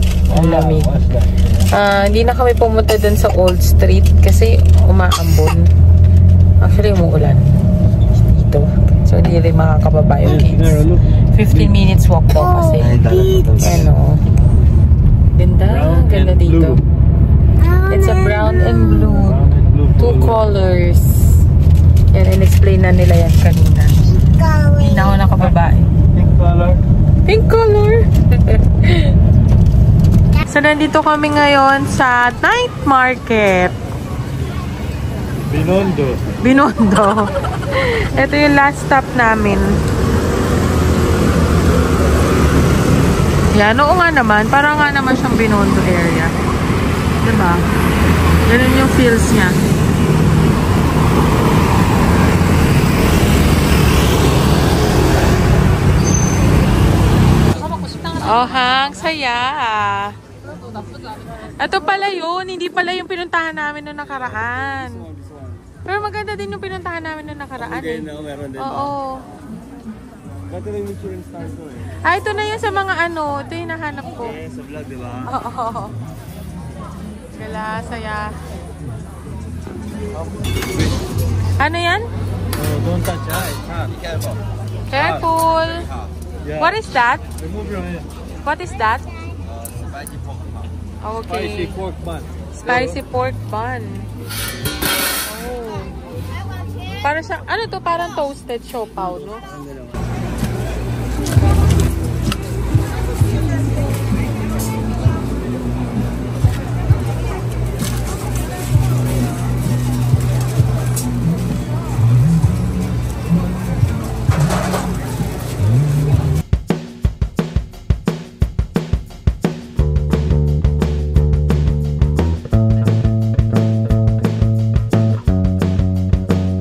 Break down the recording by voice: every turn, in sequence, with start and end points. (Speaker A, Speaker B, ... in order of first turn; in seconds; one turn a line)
Speaker A: 0.3-1.7
Speaker B: 0.3-1.0
Speaker B: 1.7-5.7
Speaker B: 6.6-7.5
Speaker B: 8.0-14.2
Speaker A: 10.2-11.8
Speaker C: 12.8-13.9
Speaker A: 13.3-13.8
Speaker B: 15.3-16.8
Speaker A: 15.6-16.8
Speaker B: 17.9-19.4
Speaker A: 18.7-20.4
Speaker B: 20.0-21.4
Speaker B: 22.1-24.1
Speaker B: 24.8-25.9
Speaker A: 26.1-26.8
Speaker B: 27.3-29.1
Speaker B: 30.4-33.8
Speaker A: 35.5-36.2
Speaker B: 36.4-39.7
Speaker B: 43.5-46.3
Speaker B: 47.2-47.6
Speaker B: 48.4-49.5
Speaker B: 57.7-60.1
Speaker B: 61.3-65.0
Speaker C: 64.7-65.7
Speaker B: 65.8-69.2
Speaker C: 67.5-69.0
Speaker C: 70.5-72.0
Speaker B: 72.0-74.4
Speaker C: 74.2-75.3
Speaker B: 75.3-76.0
Speaker B: 77.4-78.3
Speaker A: 80.5-80.9
Speaker B: 81.6-82.1
Speaker A: 82.5-83.9
Speaker C: 83.9-84.4
Speaker B: 84.9-85.9
Speaker A: 84.9-85.2
Speaker A: 86.4-86.8
Speaker B: 86.6-87.2
Speaker A: 87.4-88.0
Speaker B: 88.4-89.1
Speaker C: 89.8-90.2
Speaker B: 91.0-91.8
Speaker A: 91.3-93.0
Speaker B: 92.6-94.1
Speaker B: 95.2-95.9
Speaker B: 97.0-99.5